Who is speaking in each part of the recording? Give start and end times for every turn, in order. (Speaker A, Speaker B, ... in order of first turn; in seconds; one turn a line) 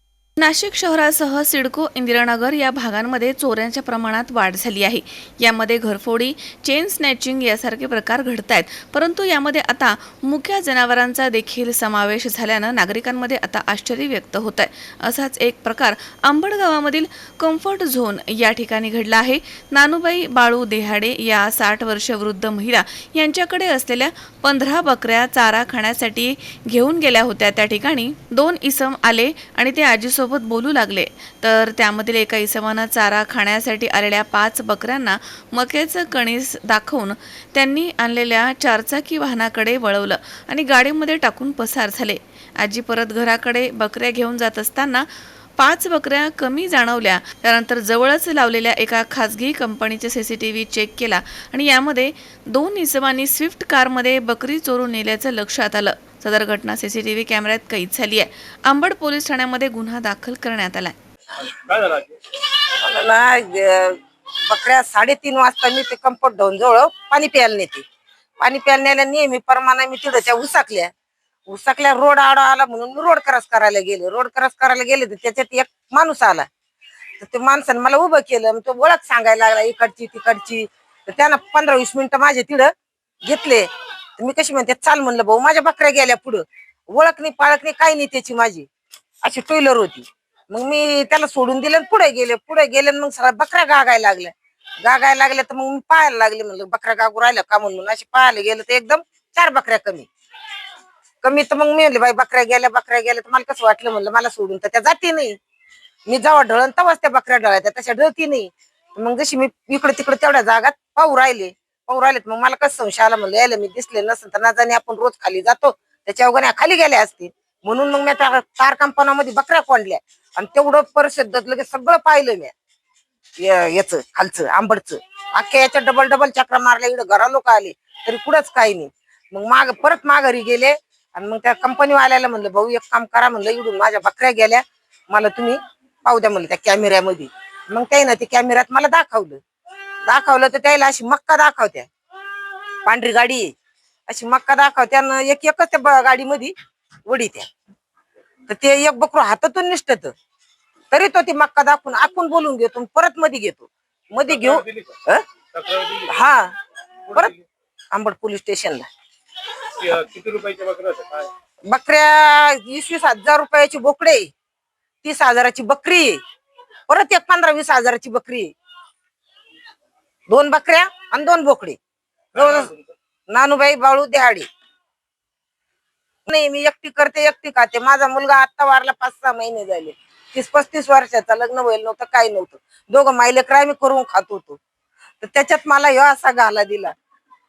Speaker A: 0.4-45.1
Speaker A: 45.6-61.0
Speaker B: 61.4-62.1
Speaker C: 62.8-67.8
Speaker C: 68.4-70.9
Speaker C: 71.5-76.5
Speaker C: 77.2-82.7
Speaker C: 83.2-83.7
Speaker C: 84.2-88.7
Speaker C: 89.2-94.3
Speaker C: 94.8-100.1
Speaker C: 101.2-105.3
Speaker C: 106.1-122.5
Speaker C: 123.4-139.4
Speaker C: 140.1-141.9
Speaker C: 142.9-143.5
Speaker C: 144.1-146.5
Speaker C: 147.1-147.5
Speaker C: 148.5-150.1
Speaker C: 150.9-155.2
Speaker B: 154.3-154.9
Speaker B: 155.5-156.2
Speaker C: 156.1-156.5
Speaker B: 157.1-157.4
Speaker C: 157.9-158.9
Speaker B: 159.8-161.3
Speaker C: 161.7-164.3
Speaker C: 165.0-166.2
Speaker C: 166.9-168.5
Speaker C: 170.3-171.8
Speaker C: 172.3-172.7
Speaker B: 172.3-172.9
Speaker C: 173.3-174.5
Speaker C: 176.3-184.6
Speaker C: 185.2-186.9